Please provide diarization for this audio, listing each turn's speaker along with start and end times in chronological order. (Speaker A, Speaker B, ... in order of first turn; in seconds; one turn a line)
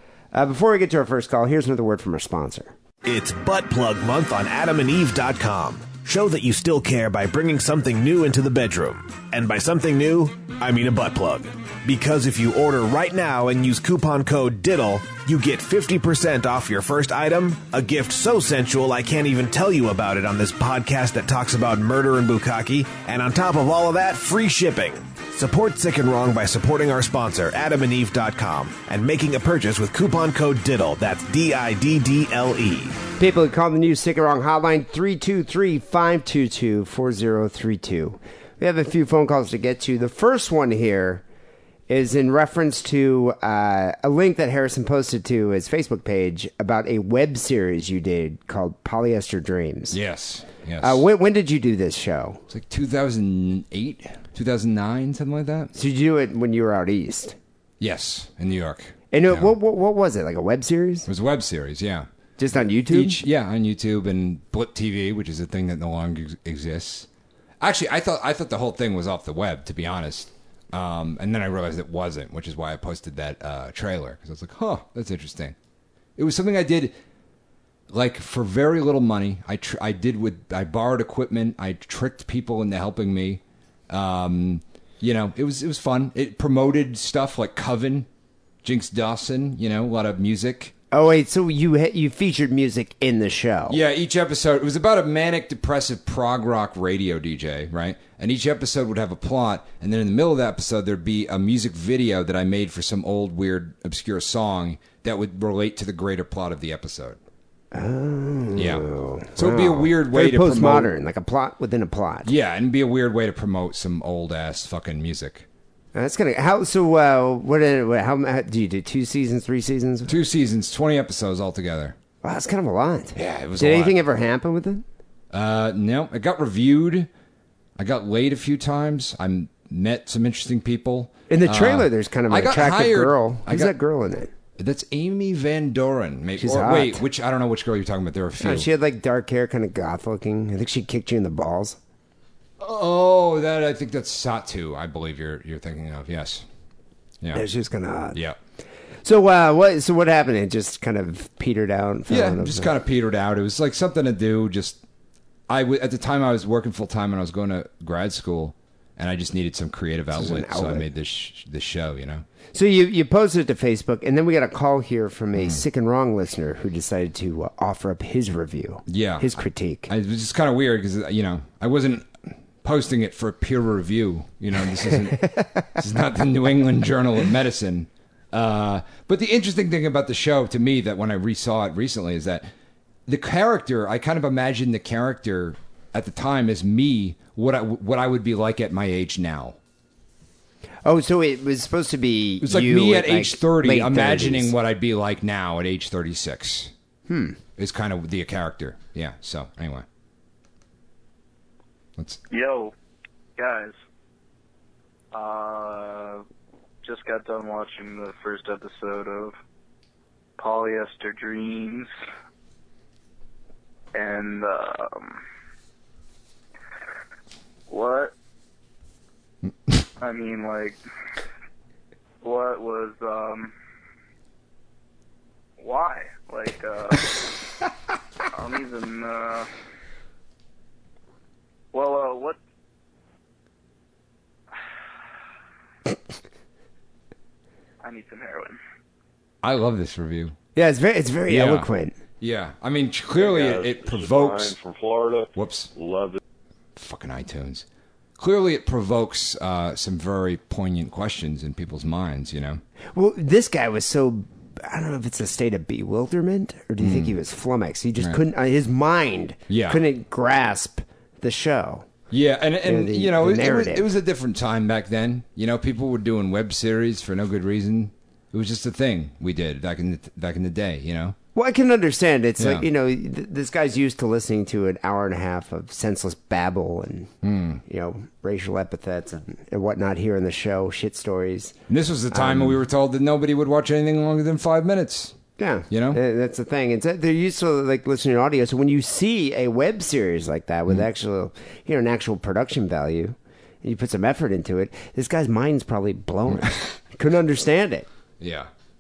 Speaker A: 0.3-2.7
Speaker B: 3.0-33.0
Speaker A: 33.2-41.2
Speaker A: 41.9-50.0
Speaker C: 49.9-51.0
Speaker A: 50.8-52.4
Speaker C: 52.5-55.7
Speaker A: 55.7-57.4
Speaker C: 57.8-59.5
Speaker A: 59.1-61.1
Speaker C: 61.1-62.0
Speaker A: 62.4-63.2
Speaker C: 62.9-67.1
Speaker C: 67.6-75.5
Speaker C: 76.2-77.0
Speaker C: 77.9-88.1
Speaker C: 88.6-90.7
Speaker A: 90.9-93.8
Speaker C: 93.7-107.2
Speaker A: 107.7-112.3
Speaker C: 108.5-110.9
Speaker C: 112.2-115.5
Speaker A: 115.9-120.1
Speaker C: 120.1-122.0
Speaker A: 122.2-124.8
Speaker C: 123.1-124.0
Speaker C: 125.3-127.1
Speaker C: 127.8-133.7
Speaker A: 131.3-134.3
Speaker C: 134.6-138.7
Speaker A: 136.4-137.0
Speaker A: 138.4-141.8
Speaker C: 142.6-146.4
Speaker A: 147.3-148.2
Speaker A: 149.0-152.7
Speaker C: 152.1-154.8
Speaker C: 155.5-162.2
Speaker A: 160.1-160.9
Speaker A: 162.5-169.9
Speaker C: 165.3-165.6
Speaker C: 168.9-182.5
Speaker C: 183.1-189.6
Speaker A: 190.8-194.5
Speaker C: 192.4-196.7
Speaker A: 197.1-197.4
Speaker C: 197.6-199.8
Speaker D: 202.3-202.7
Speaker D: 203.4-203.8
Speaker D: 205.1-206.2
Speaker D: 206.8-209.3
Speaker D: 210.4-211.9
Speaker D: 213.9-215.2
Speaker D: 217.7-218.1
Speaker D: 220.0-220.8
Speaker D: 222.2-223.5
Speaker D: 225.6-227.2
Speaker D: 228.3-229.5
Speaker D: 231.7-232.4
Speaker D: 237.8-238.6
Speaker C: 239.4-240.3
Speaker A: 240.5-242.0
Speaker C: 241.3-241.7
Speaker C: 242.2-244.5
Speaker E: 243.2-246.2
Speaker C: 245.3-245.7
Speaker C: 246.8-247.6
Speaker C: 248.2-252.6
Speaker A: 252.9-261.9
Speaker C: 256.8-257.1
Speaker C: 259.5-259.8
Speaker C: 262.1-271.1
Speaker A: 262.6-263.9
Speaker A: 271.3-277.1
Speaker C: 272.4-272.7
Speaker C: 277.2-277.6
Speaker A: 277.6-281.5
Speaker C: 281.7-285.2
Speaker A: 282.1-282.6
Speaker A: 285.4-297.9
Speaker C: 285.7-286.0
Speaker C: 298.2-298.5